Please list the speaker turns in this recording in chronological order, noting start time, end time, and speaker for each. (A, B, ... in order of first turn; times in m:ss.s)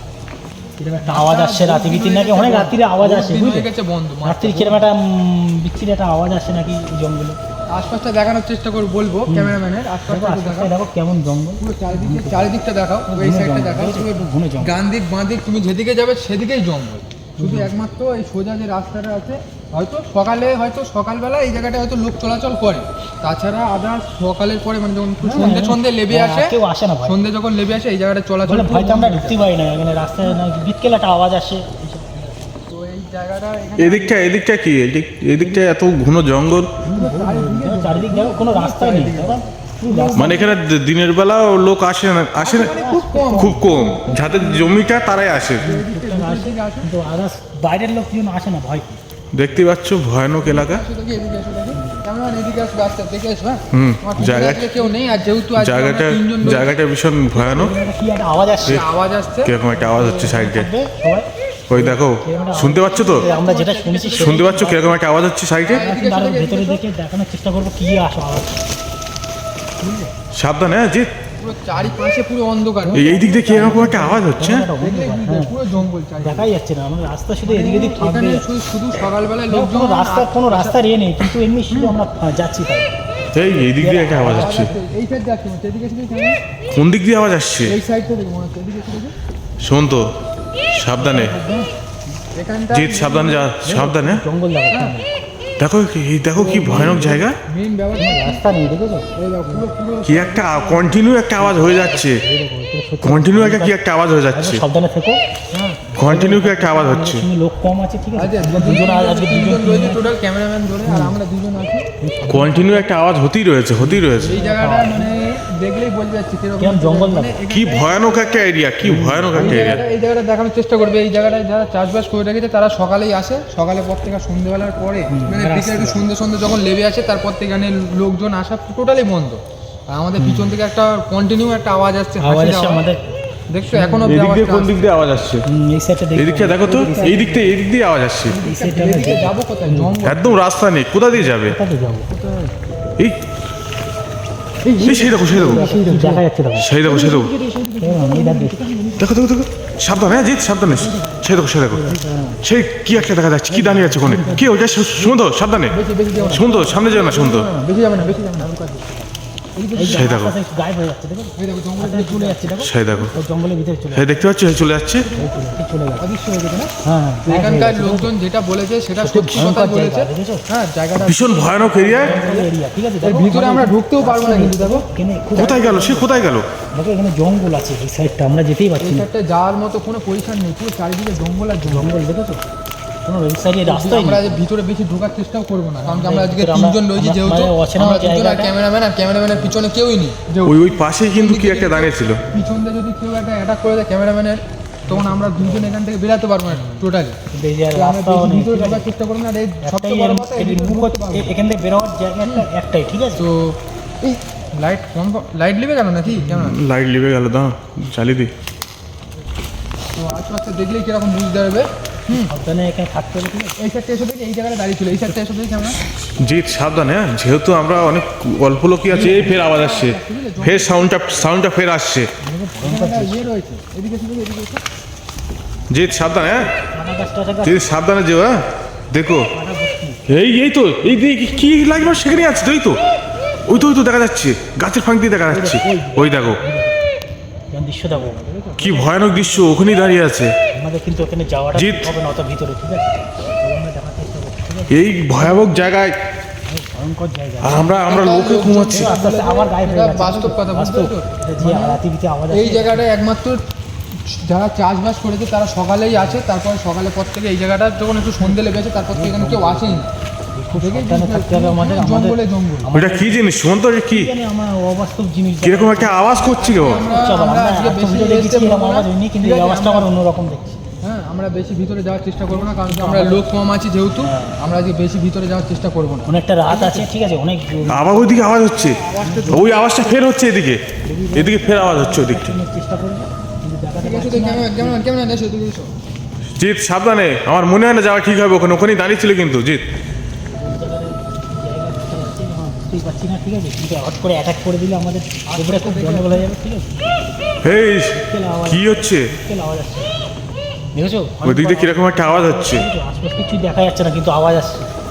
0:00.8-0:03.7 A
0:01.0-0:04.9 B
0:04.2-0:07.4 A
0:07.7-0:10.7 B
0:09.3-0:12.6 A
0:11.6-0:26.5 B
0:13.1-0:14.7 A
0:17.4-0:17.7 A
0:25.2-0:27.2 A
0:27.0-0:29.4 B
0:28.4-0:32.4 A
0:32.7-0:34.3 B
0:33.8-0:36.8 C
0:35.4-0:35.7 A
0:36.8-0:40.5 A
0:36.9-0:40.5 B
0:40.1-0:42.7 C
0:42.4-0:44.6 B
0:42.6-0:44.8 A
0:43.3-0:45.6 C
0:45.6-0:46.8 B
0:45.6-0:49.0 A
0:49.3-0:50.8 C
0:50.4-0:56.7 B
0:51.7-0:52.0 A
0:53.7-0:54.7 C
0:54.2-0:55.2 A
0:55.6-0:57.7 C
0:57.3-0:58.8 A
0:58.6-0:59.5 B
0:59.4-1:00.7 C
0:59.7-1:05.0 A
1:01.7-1:03.3 C
1:02.4-1:04.7 B
1:04.2-1:05.8 C
1:05.6-1:06.8 B
1:05.7-1:08.7 A
1:10.3-1:11.1 C
1:11.4-1:14.1 B
1:12.8-1:18.5 A
1:12.9-1:14.7 C
1:14.8-1:16.5 B
1:17.4-1:20.8 B
1:19.5-1:22.9 A
1:21.7-1:22.0 B
1:23.3-1:24.7 C
1:23.5-1:24.8 A
1:24.2-1:26.4 B
1:26.7-1:27.8 C
1:27.6-1:29.1 B
1:29.6-1:30.1 C
1:30.7-1:31.3 C
1:31.0-1:31.6 B
1:31.0-1:31.5 A
1:32.3-1:33.5 B
1:32.7-1:34.2 C
1:33.6-1:35.1 A
1:34.7-1:34.9 B
1:35.6-1:37.4 C
1:36.4-1:38.4 B
1:36.5-1:37.1 A
1:38.0-1:39.6 A
1:39.2-1:41.0 B
1:40.0-1:42.2 C
1:41.4-1:43.8 A
1:43.0-1:44.6 C
1:44.3-1:45.2 A
1:45.5-1:45.8 B
1:46.0-1:47.3 C
1:46.0-1:50.1 A
1:48.1-1:51.9 B
1:50.8-1:51.1 A
1:52.0-1:52.9 A
1:52.2-1:54.4 C
1:53.8-1:55.1 A
1:54.2-1:58.5 B
1:56.6-1:57.4 A
1:57.5-1:59.8 C
1:58.8-1:59.8 A
1:59.3-2:12.8 B
2:05.1-2:06.1 A
2:10.2-2:10.6 A
2:12.2-2:13.0 A
2:13.5-2:14.9 B
2:13.6-2:14.2 A
2:14.0-2:15.4 C
2:15.4-2:17.5 A
2:16.1-2:18.4 C
2:16.6-2:17.5 B
2:18.3-2:20.4 B
2:18.4-2:20.0 A
2:20.0-2:21.5 C
2:21.1-2:22.1 A
2:22.1-2:22.5 B
2:24.6-2:26.2 B
2:24.8-2:25.6 C
2:24.8-2:26.7 A
2:26.6-2:27.3 C
2:26.8-2:29.1 B
2:27.8-2:28.7 A
2:29.0-2:31.9 C
2:30.7-2:35.1 A
2:32.4-2:35.7 C
2:34.0-2:34.5 B
2:35.7-2:38.5 B
2:36.1-2:36.7 A
2:36.3-2:37.5 C
2:37.9-2:39.1 A
2:39.6-2:40.1 B
2:39.7-2:44.3 A
2:39.9-2:40.3 C
2:41.4-2:43.0 B
2:42.6-2:43.1 C
2:43.9-2:45.1 C
2:45.0-2:45.4 B
2:45.1-2:46.1 A
2:46.0-2:46.7 B
2:46.8-2:48.1 A
2:47.2-2:52.5 B
2:49.0-2:50.4 A
2:51.0-2:52.2 C
2:51.7-2:56.2 A
2:53.0-2:54.8 B
2:55.4-2:56.5 C
2:56.7-2:59.1 A
2:58.8-3:02.0 B
3:01.6-3:02.4 A
3:03.0-3:04.4 A
3:03.6-3:17.2 B
3:05.8-3:08.6 A
3:10.4-3:12.2 C
3:14.8-3:15.8 A
3:16.5-3:16.8 A
3:17.3-3:18.9 A
3:17.7-3:21.4 B
3:19.6-3:23.2 A
3:23.2-3:26.6 B
3:26.1-3:28.3 C
3:30.0-3:32.3 B
3:32.1-3:33.6 A
3:33.6-3:35.8 B
3:34.9-3:35.2 A
3:36.2-3:42.1 C
3:38.9-3:41.2 B
3:38.9-3:39.4 A
3:42.2-3:43.3 A
3:42.6-3:44.6 B
3:45.7-3:46.5 C
3:46.5-3:47.8 A
3:47.4-3:49.3 C
3:49.3-3:50.0 A
3:50.1-3:52.8 C
3:50.8-3:52.5 A
3:53.5-3:56.4 C
3:55.3-3:56.8 A
3:57.5-3:59.7 A
3:58.6-4:00.3 C
4:00.5-4:05.6 A
4:01.5-4:01.9 C
4:04.7-4:06.0 C
4:06.5-4:07.9 A
4:07.4-4:08.9 C
4:07.8-4:13.4 B
4:08.7-4:12.8 A
4:14.0-4:19.9 B
4:15.9-4:16.2 A
4:18.2-4:23.2 A
4:20.5-4:22.7 B
4:22.7-4:24.1 C
4:23.9-4:30.6 A
4:25.4-4:26.8 C
4:26.0-4:29.9 B
4:30.8-4:36.9 B
4:32.1-4:33.2 A
4:34.0-4:34.4 A
4:36.0-4:38.2 A
4:37.7-4:42.3 C
4:38.2-4:40.0 B
4:39.0-4:39.5 A
4:40.8-4:44.9 A
4:43.8-4:45.7 B
4:46.4-4:49.6 C
4:50.3-4:56.8 A
4:55.3-4:56.3 B
4:57.4-4:58.0 C
4:57.9-5:00.0 A
4:58.5-4:59.1 C
5:00.7-5:04.7 A
5:01.2-5:02.6 C